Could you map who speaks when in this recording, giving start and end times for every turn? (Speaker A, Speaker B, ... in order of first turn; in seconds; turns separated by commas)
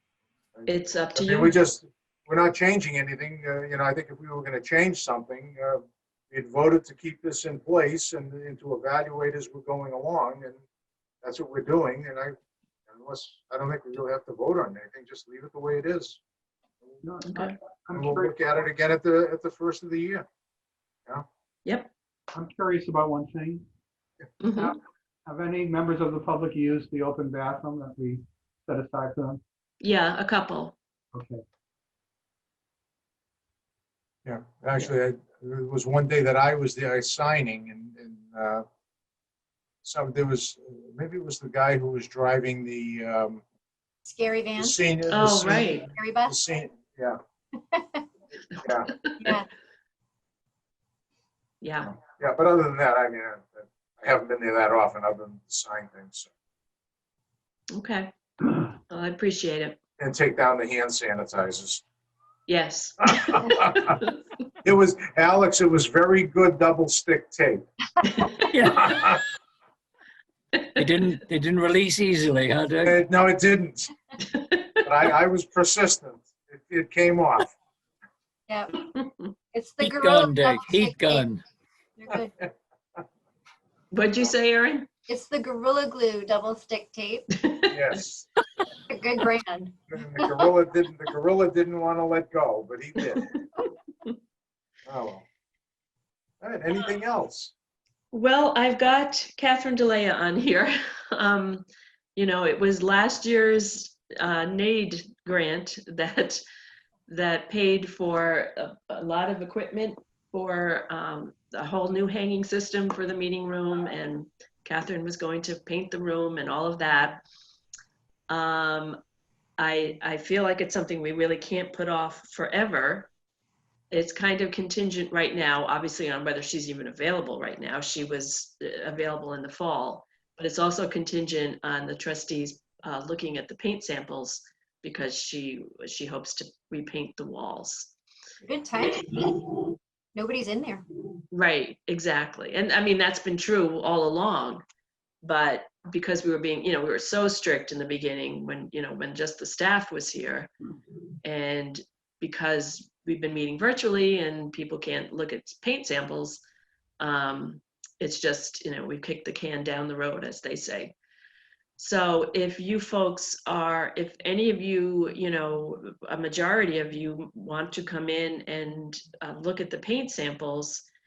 Speaker A: 0.5-10.6, Speaker B: 0.7-1.6, Speaker A: 11.2-12.3, Speaker A: 12.9-16.2, Speaker C: 17.0-18.6, Speaker B: 17.2-17.6, Speaker A: 17.9-20.2, Speaker B: 21.6-21.9, Speaker C: 22.3-23.6, Speaker B: 24.4-24.7, Speaker C: 24.5-29.4, Speaker B: 29.8-30.8, Speaker C: 31.1-31.4, Speaker A: 34.2-38.6, Speaker A: 39.8-43.4, Speaker D: 44.0-44.8, Speaker A: 44.6-47.2, Speaker B: 45.1-45.9, Speaker D: 45.5-46.4, Speaker D: 47.7-48.0, Speaker A: 48.6-48.9, Speaker B: 48.9-49.4, Speaker D: 49.2-49.5, Speaker B: 51.6-51.9, Speaker A: 51.8-56.3, Speaker B: 57.7-59.8, Speaker A: 60.0-61.8, Speaker B: 62.5-64.1, Speaker A: 63.2-63.7, Speaker A: 64.6-67.6, Speaker B: 68.1-68.7, Speaker E: 68.5-69.1, Speaker A: 68.7-69.1, Speaker B: 70.5-71.1, Speaker E: 70.8-73.0, Speaker A: 72.8-73.9, Speaker B: 74.3-74.8, Speaker A: 74.8-77.5, Speaker D: 78.5-78.7, Speaker B: 78.9-79.3, Speaker D: 79.5-81.3, Speaker E: 79.8-81.4, Speaker D: 82.0-82.3, Speaker B: 83.9-84.9, Speaker D: 85.1-87.3, Speaker B: 87.3-88.0, Speaker A: 87.7-88.3, Speaker D: 88.9-89.7, Speaker A: 89.9-93.3, Speaker A: 94.8-95.2, Speaker A: 96.4-97.5, Speaker B: 98.1-101.6, Speaker B: 102.2-106.4, Speaker B: 107.1-117.2, Speaker B: 118.3-119.0, Speaker B: 119.6-123.1, Speaker B: 123.9-137.9, Speaker D: 138.4-139.5, Speaker D: 140.1-140.8, Speaker B: 141.3-144.6, Speaker B: 145.2-150.5, Speaker B: 151.2-156.4, Speaker B: 157.0-160.9, Speaker B: 161.8-170.8